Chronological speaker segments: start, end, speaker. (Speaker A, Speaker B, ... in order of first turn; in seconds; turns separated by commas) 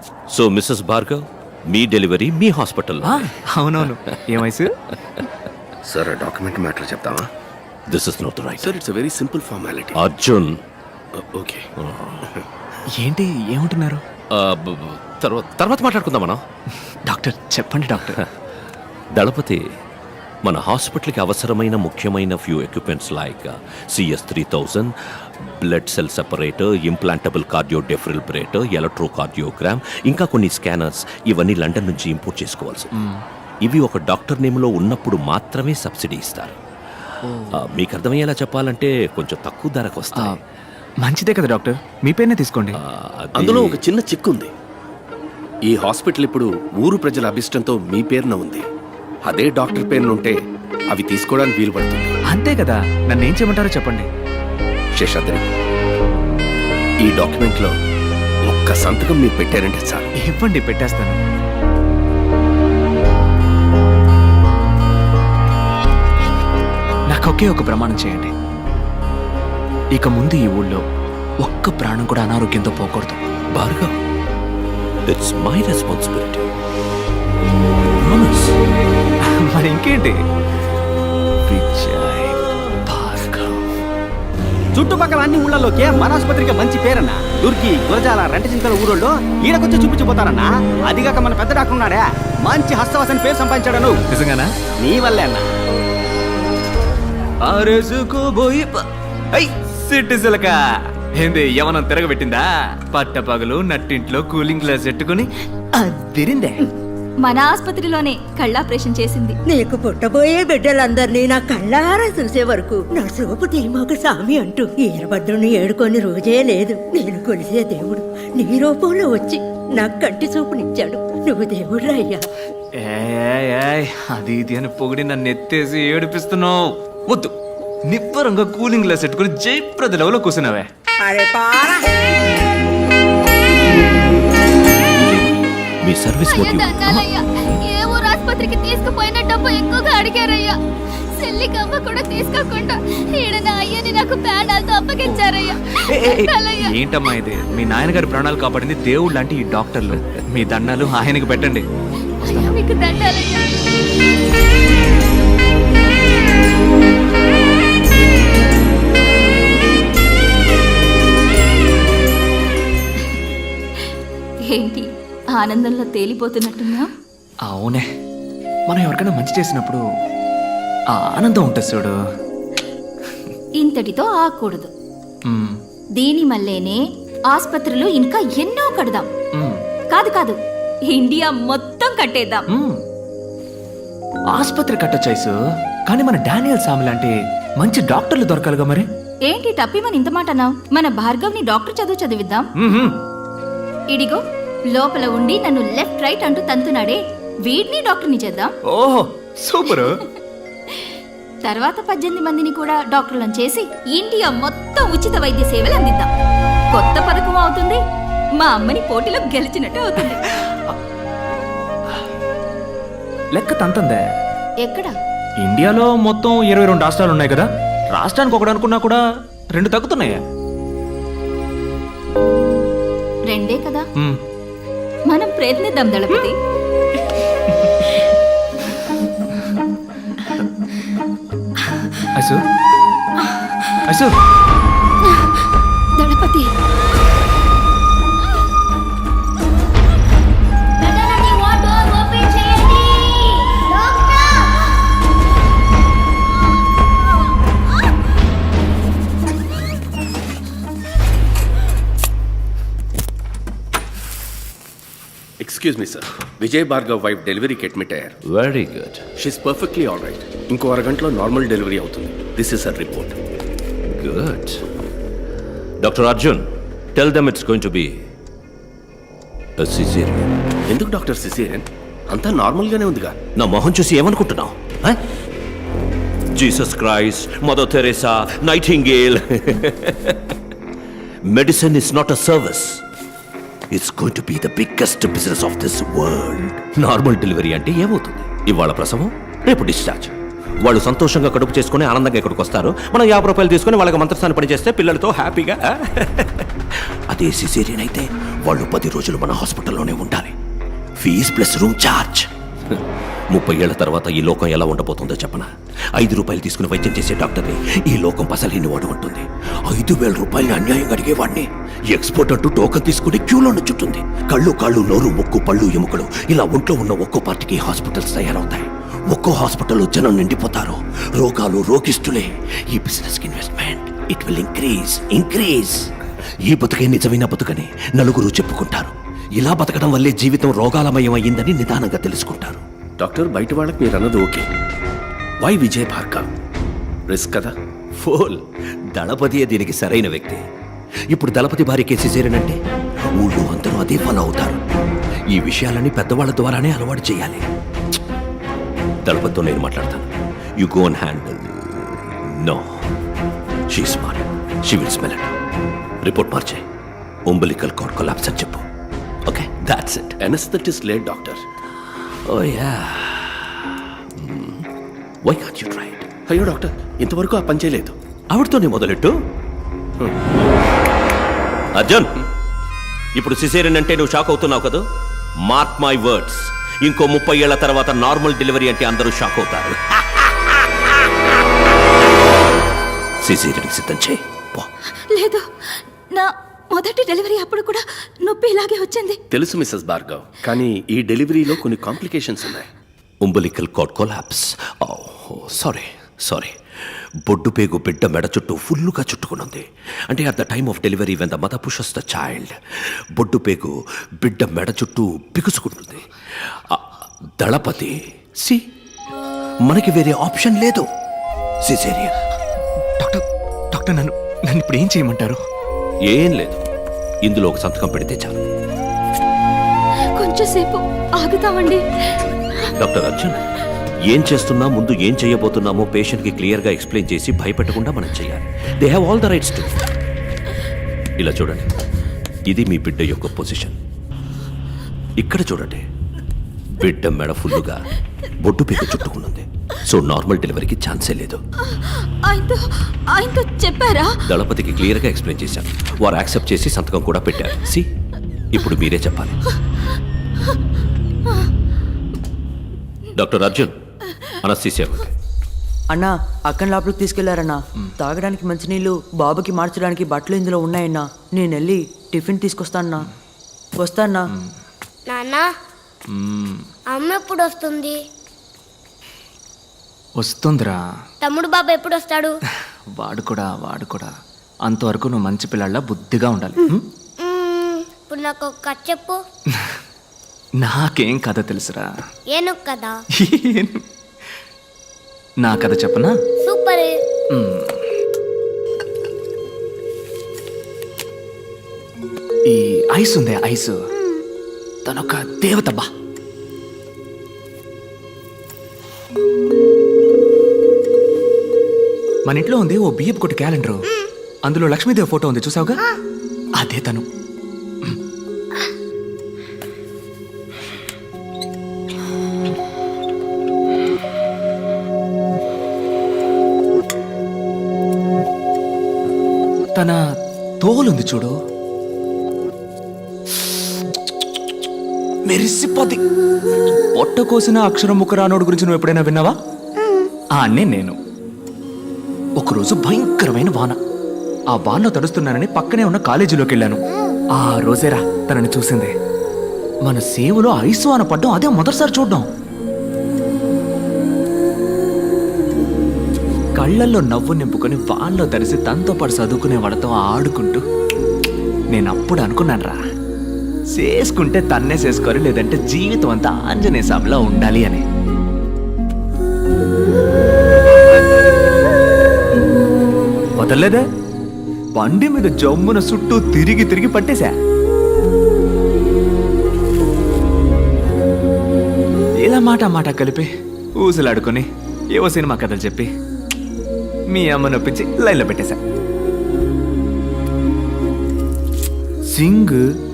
Speaker A: 0.3-3.9, Speaker B: 3.0-4.7, Speaker C: 5.8-7.3, Speaker A: 7.9-8.8, Speaker C: 8.6-10.0, Speaker A: 9.9-10.6, Speaker C: 11.2-11.7, Speaker A: 11.8-12.3, Speaker B: 13.0-14.0, Speaker A: 14.3-16.4, Speaker B: 17.0-18.2, Speaker A: 19.1-19.6, Speaker A: 20.4-24.9, Speaker A: 25.5-32.9, Speaker B: 33.0-33.2, Speaker A: 33.6-36.5, Speaker B: 37.2-37.6, Speaker A: 37.5-40.4, Speaker B: 41.0-42.8, Speaker A: 42.8-43.8, Speaker C: 43.4-44.5, Speaker C: 45.6-48.7, Speaker C: 49.3-50.4, Speaker C: 50.9-52.1, Speaker B: 52.3-54.1, Speaker C: 55.0-55.5, Speaker C: 57.0-57.7, Speaker C: 58.5-60.1, Speaker B: 60.2-61.2, Speaker B: 67.1-68.3, Speaker B: 70.0-70.8, Speaker B: 71.4-73.3, Speaker A: 73.5-74.0, Speaker A: 75.1-76.5, Speaker A: 78.0-78.6, Speaker B: 79.4-80.2, Speaker B: 81.5-83.7, Speaker D: 84.7-94.0, Speaker B: 94.1-94.5, Speaker D: 94.8-95.5, Speaker B: 97.4-106.7, Speaker E: 107.2-109.4, Speaker F: 109.5-122.2, Speaker B: 122.8-127.3, Speaker B: 127.9-130.7, Speaker A: 134.8-137.0, Speaker E: 136.3-140.6, Speaker E: 141.2-146.7, Speaker B: 145.1-151.7, Speaker B: 152.2-152.6, Speaker E: 152.2-153.5, Speaker E: 164.5-166.9, Speaker B: 167.5-167.9, Speaker B: 168.7-169.8, Speaker B: 170.9-172.0, Speaker E: 173.6-174.7, Speaker B: 175.3-175.6, Speaker E: 176.0-179.1, Speaker E: 179.9-180.4, Speaker E: 180.9-182.4, Speaker B: 182.5-182.8, Speaker B: 184.3-185.4, Speaker B: 185.9-188.9, Speaker E: 189.2-192.5, Speaker B: 192.6-193.0, Speaker E: 193.9-194.2, Speaker E: 194.7-198.5, Speaker B: 198.7-199.9, Speaker E: 199.7-200.0, Speaker E: 201.4-206.1, Speaker E: 206.7-207.8, Speaker E: 208.4-210.2, Speaker B: 210.1-210.8, Speaker B: 213.3-214.0, Speaker E: 214.6-215.0, Speaker B: 215.4-219.0, Speaker B: 219.5-220.2, Speaker E: 223.3-223.9, Speaker E: 225.1-226.3, Speaker B: 233.9-234.1, Speaker E: 236.0-236.5, Speaker G: 240.8-244.8, Speaker C: 255.4-258.2, Speaker A: 258.2-259.0, Speaker C: 259.2-263.2, Speaker A: 263.8-264.6, Speaker A: 265.8-267.9, Speaker A: 269.6-270.3, Speaker C: 270.7-273.2, Speaker A: 273.4-275.0, Speaker A: 276.4-280.4, Speaker A: 281.3-282.8, Speaker A: 283.7-300.4, Speaker A: 301.0-325.8, Speaker A: 326.4-332.6, Speaker C: 333.0-334.5, Speaker C: 335.4-336.3, Speaker C: 337.1-337.5, Speaker A: 338.0-338.4, Speaker A: 338.9-340.4, Speaker A: 341.1-342.6, Speaker A: 343.2-344.6, Speaker A: 345.3-347.5, Speaker A: 349.1-352.6, Speaker A: 353.7-355.3, Speaker A: 356.0-356.6, Speaker A: 357.3-358.6, Speaker A: 359.3-360.2, Speaker C: 360.2-361.4, Speaker A: 361.8-364.6, Speaker A: 365.2-366.1, Speaker C: 366.3-367.9, Speaker A: 368.3-369.1, Speaker A: 371.8-372.2, Speaker A: 373.1-374.8, Speaker A: 375.4-381.1, Speaker A: 383.2-384.7, Speaker E: 385.1-385.5, Speaker E: 386.1-389.2, Speaker C: 389.3-392.7, Speaker A: 393.2-396.6, Speaker A: 397.2-402.5, Speaker A: 403.2-408.6, Speaker A: 409.6-410.9, Speaker A: 411.6-412.2, Speaker B: 413.0-415.4, Speaker A: 416.1-416.6, Speaker A: 417.2-418.4, Speaker E: 420.2-422.7, Speaker A: 422.8-423.4, Speaker A: 424.1-429.9, Speaker A: 431.2-431.7, Speaker A: 432.5-433.8, Speaker A: 435.2-435.9, Speaker A: 436.8-437.9, Speaker A: 438.4-441.4, Speaker E: 441.7-444.2, Speaker A: 444.2-447.9, Speaker A: 448.5-449.4, Speaker A: 453.1-453.8, Speaker A: 454.4-455.1, Speaker H: 455.9-463.1, Speaker H: 463.8-464.2, Speaker G: 465.1-465.5, Speaker B: 466.1-466.7, Speaker G: 466.9-468.0, Speaker B: 470.2-470.8, Speaker G: 471.2-472.4, Speaker B: 472.9-474.1, Speaker B: 474.7-476.9, Speaker G: 477.2-479.2, Speaker B: 480.6-481.9, Speaker G: 482.3-483.0, Speaker B: 483.2-483.9, Speaker B: 485.4-486.1, Speaker G: 486.4-487.0, Speaker B: 487.3-487.8, Speaker B: 492.5-493.8, Speaker G: 493.9-494.2, Speaker B: 494.9-495.9, Speaker B: 502.2-503.9, Speaker B: 504.4-505.8, Speaker B: 506.6-507.1, Speaker B: 519.8-520.0, Speaker B: 520.6-521.4, Speaker B: 525.3-526.0, Speaker B: 526.7-529.4, Speaker B: 530.4-531.0, Speaker B: 532.4-533.8, Speaker B: 534.5-536.8, Speaker B: 537.4-538.9, Speaker B: 539.9-542.3, Speaker B: 546.6-550.6, Speaker B: 551.7-552.8, Speaker B: 553.8-557.9, Speaker B: 563.4-563.8, Speaker B: 564.8-567.4, Speaker B: 572.2-575.9, Speaker B: 577.1-578.6, Speaker B: 582.1-582.6